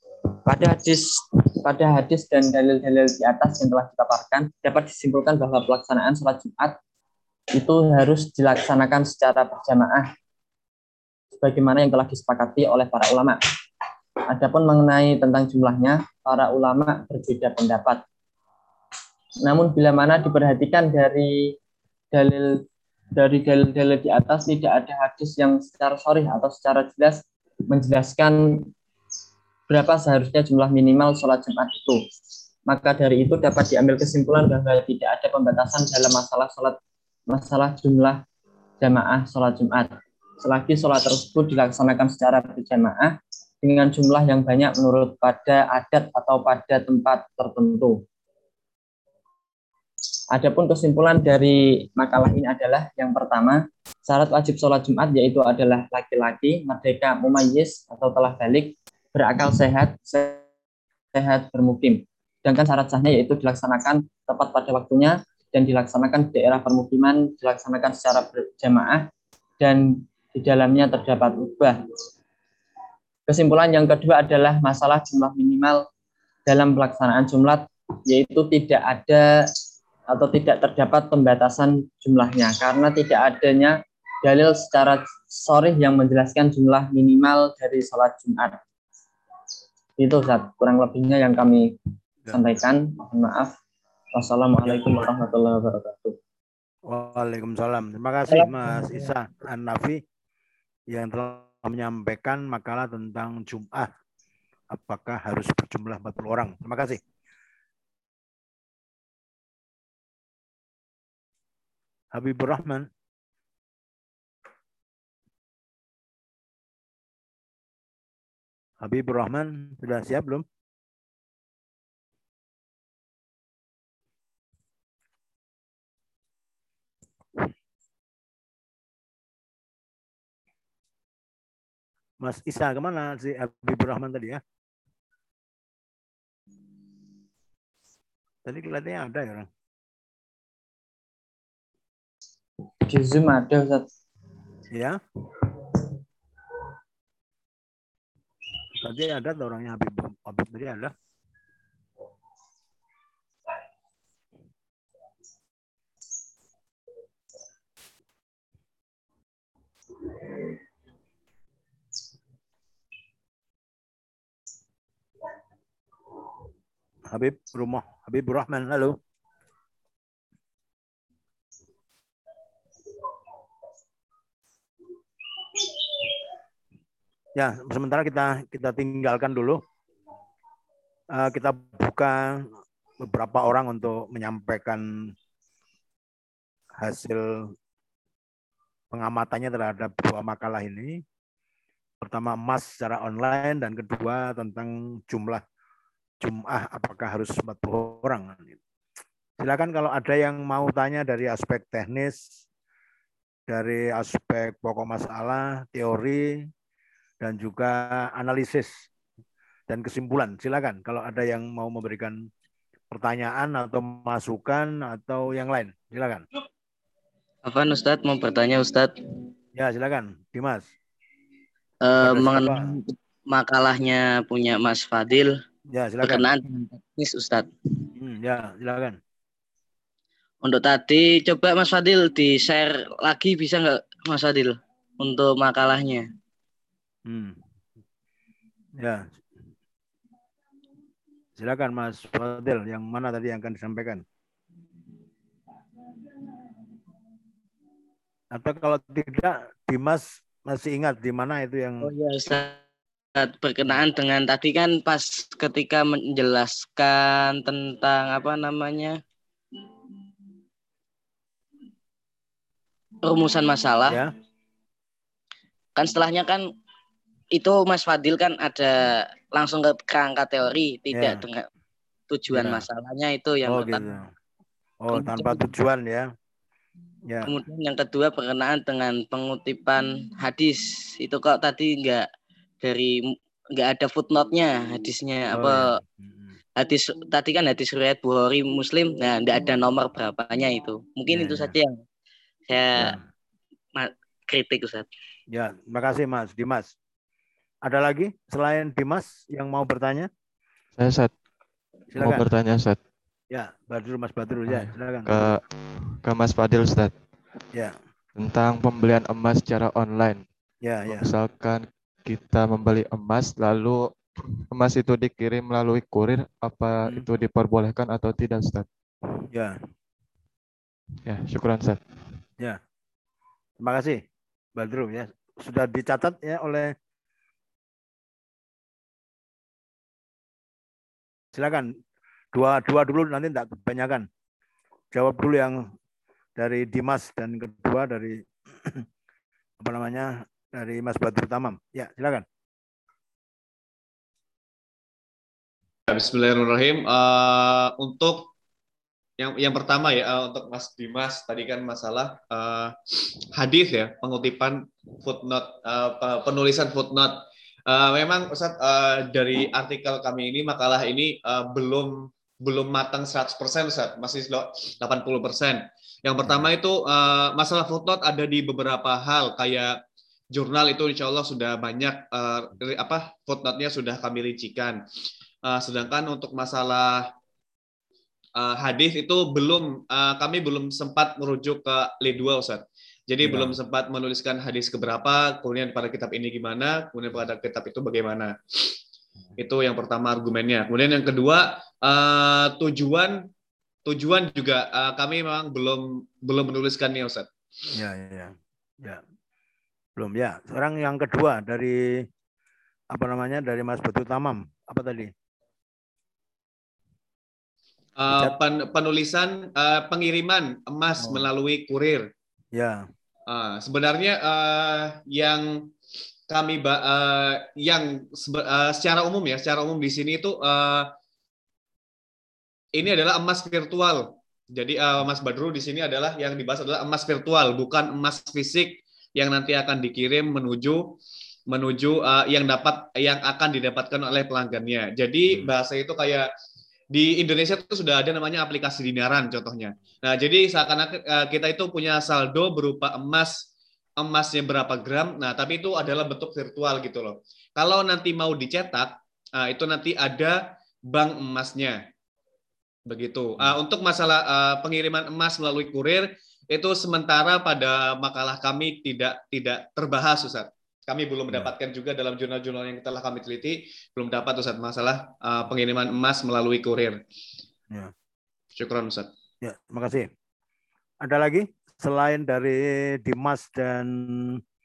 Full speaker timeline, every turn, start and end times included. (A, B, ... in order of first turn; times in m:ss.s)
0:00.3-0:06.8 A
0:07.6-0:10.1 A
0:11.4-0:13.4 A
0:14.3-0:18.0 A
0:19.4-0:21.6 A
0:22.1-0:28.7 A
0:29.7-0:32.0 A
0:32.7-0:36.8 A
0:37.3-0:38.2 A
0:38.8-0:48.0 A
0:50.3-1:00.4 A
1:01.1-1:09.1 A
1:09.6-1:11.8 A
1:13.3-1:15.9 A
1:16.5-1:19.5 A
1:20.1-1:28.6 A
1:30.0-1:31.8 A
1:32.3-1:33.6 A
1:34.2-1:36.2 A
1:34.6-1:35.0 B
1:36.9-1:40.0 B
1:38.3-1:39.1 A
1:40.9-1:43.9 B
1:44.7-1:47.0 B
1:52.1-1:52.9 B
1:58.8-2:00.4 B
2:12.2-2:14.4 B
2:18.4-2:19.5 B
2:22.8-2:23.9 A
2:24.7-2:25.0 B
2:28.7-2:30.9 B
2:47.1-2:49.0 B
2:57.4-2:59.6 B
3:01.1-3:02.5 B
3:03.0-3:04.8 B
3:06.8-3:07.5 B
3:08.9-3:11.0 B
3:12.0-3:15.4 B
3:16.2-3:18.6 B
3:19.4-3:22.2 B
3:23.5-3:26.5 B
3:27.2-3:28.7 B
3:29.7-3:32.2 B
3:32.9-3:36.2 B
3:37.4-3:38.9 C
3:39.6-3:40.7 B
3:41.8-3:45.3 C
3:42.0-3:42.7 B
3:45.7-3:46.3 B
3:46.0-3:47.5 C
3:48.0-3:49.0 B
3:50.4-3:56.1 C
3:57.1-3:57.4 B
3:58.8-3:59.2 B
4:01.4-4:04.0 B
4:08.3-4:11.9 B
4:11.8-4:12.6 C
4:13.2-4:19.0 C
4:23.0-4:24.0 C
4:23.9-4:24.1 B
4:25.8-4:26.4 C
4:27.4-4:31.5 C
4:30.9-4:31.2 B
4:32.1-4:33.9 C
4:32.3-4:32.6 B
4:33.4-4:34.1 B
4:34.8-4:36.1 B
4:34.9-4:35.4 C
4:37.1-4:37.4 B
4:37.2-4:42.0 C
4:42.6-4:45.7 C
4:45.3-4:46.3 B
4:46.6-4:51.8 C
4:51.1-4:51.6 B
4:52.5-4:53.0 C
4:52.8-4:53.0 B
4:53.8-4:54.9 C
4:55.3-4:56.7 B
4:57.6-5:00.1 B
5:00.8-5:01.1 D
5:01.9-5:02.3 B
5:01.9-5:02.8 D
5:03.3-5:05.3 B
5:04.5-5:06.9 D
5:08.2-5:10.3 D
5:10.6-5:11.1 B
5:10.9-5:18.7 D
5:19.3-5:19.6 B
5:21.1-5:21.8 D
5:23.6-5:24.0 B
5:24.6-5:26.7 B
5:31.3-5:31.7 B
5:32.3-5:34.1 B
5:34.9-5:35.7 B
5:36.4-5:38.9 B
5:39.6-5:42.2 B
5:45.9-5:48.3 E
5:49.2-5:52.7 E
5:53.3-6:09.8 E
6:10.3-6:14.8 E
6:15.4-6:17.1 E
6:18.4-6:28.8 E
6:23.2-6:23.5 B
6:29.4-6:33.3 E
6:33.9-6:37.3 E
6:37.7-6:39.0 B
6:40.0-6:42.1 B
6:42.9-6:45.1 B
6:48.0-6:52.1 E
6:48.1-6:48.4 B
6:51.0-6:51.3 B
6:52.5-6:52.9 B
6:53.3-6:55.5 E
6:56.3-7:00.9 E
7:02.8-7:11.0 E
7:11.5-7:16.3 E
7:16.9-7:23.4 E
7:24.0-7:31.8 E
7:32.9-7:47.0 E
7:48.6-7:49.1 E
7:49.4-7:50.1 B
7:51.0-7:54.4 B